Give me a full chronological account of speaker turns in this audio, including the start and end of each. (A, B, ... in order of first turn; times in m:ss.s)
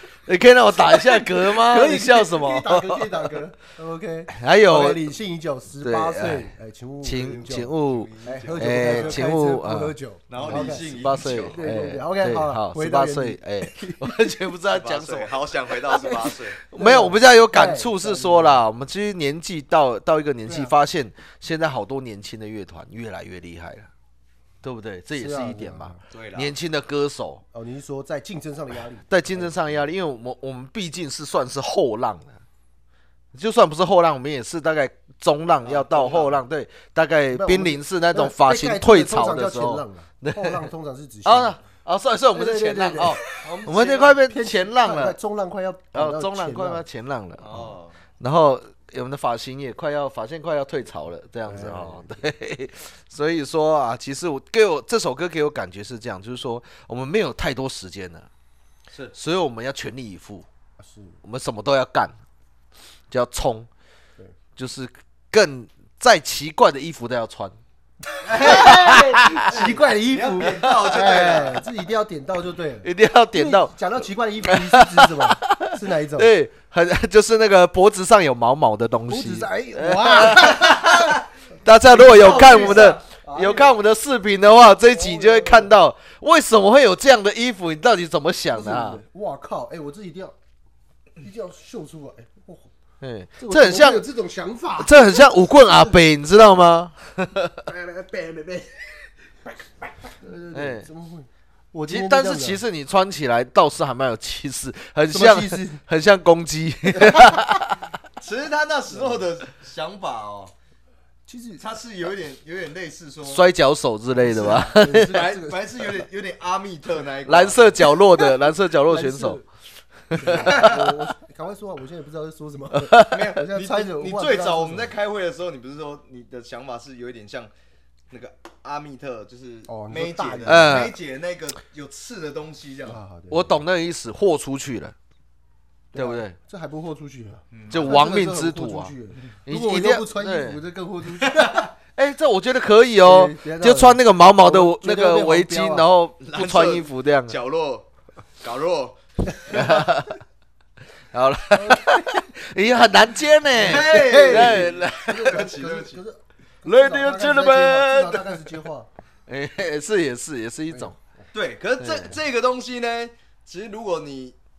0:00.2-0:03.4 A
0:00.8-0:07.7 B
0:04.3-0:05.1 A
0:05.8-0:23.9 A
0:07.2-0:09.3 C
0:08.2-0:14.3 B
0:10.3-0:11.6 C
0:14.7-0:16.6 C
0:15.9-0:16.2 B
0:16.7-0:18.6 B
0:20.4-0:20.7 B
0:24.6-0:27.4 A
0:25.1-0:26.0 B
0:26.1-0:26.6 C
0:27.5-0:29.8 B
0:29.1-0:32.4 A
0:33.3-0:40.7 A
0:35.6-0:36.4 C
0:37.3-0:41.6 B
0:41.2-0:45.2 A
0:42.3-0:46.8 B
0:43.4-0:44.0 C
0:45.9-0:58.3 A
0:47.4-0:48.0 C
0:51.4-0:52.1 B
0:59.1-1:00.4 A
1:00.8-1:01.2 B
1:01.2-1:02.2 A
1:03.1-1:03.7 A
1:04.6-1:07.6 A
1:08.2-1:11.7 C
1:08.3-1:16.3 B
1:08.4-1:09.5 A
1:12.8-1:29.0 A
1:19.1-1:21.2 B
1:21.8-1:23.7 B
1:22.1-1:22.9 C
1:24.9-1:25.7 B
1:28.5-1:30.3 B
1:31.2-1:32.7 B
1:33.0-1:34.1 A
1:33.4-1:36.0 B
1:34.8-1:37.6 A
1:37.6-1:38.9 B
1:40.1-1:42.6 B
1:40.5-1:40.9 A
1:41.9-1:47.8 A
1:45.1-1:45.8 B
1:47.0-1:47.4 B
1:48.2-1:50.5 C
1:48.9-1:49.2 B
1:51.2-1:51.6 B
1:51.6-1:53.5 C
1:53.2-1:55.2 A
1:54.2-1:56.0 B
1:54.4-1:58.0 C
1:57.2-1:59.4 A
1:58.8-1:59.4 B
2:00.1-2:00.7 A
2:00.1-2:04.9 B
2:00.4-2:00.9 C
2:02.7-2:03.3 A
2:03.0-2:07.5 C
2:08.1-2:13.0 C
2:09.7-2:10.9 B
2:10.4-2:11.0 A
2:12.8-2:13.6 B
2:13.3-2:14.9 A
2:15.9-2:21.7 B
2:15.9-2:16.4 A
2:17.5-2:18.1 C
2:17.7-2:18.9 A
2:19.4-2:20.6 A
2:22.0-2:27.4 A
2:23.0-2:25.9 B
2:26.2-2:27.9 C
2:28.4-2:29.9 C
2:29.5-2:30.1 A
2:31.1-2:35.4 A
2:31.5-2:32.2 B
2:33.6-2:38.9 B
2:33.6-2:36.0 C
2:36.6-2:38.6 A
2:39.3-2:40.9 A
2:40.7-2:41.3 B
2:41.3-2:44.4 C
2:41.8-2:42.2 A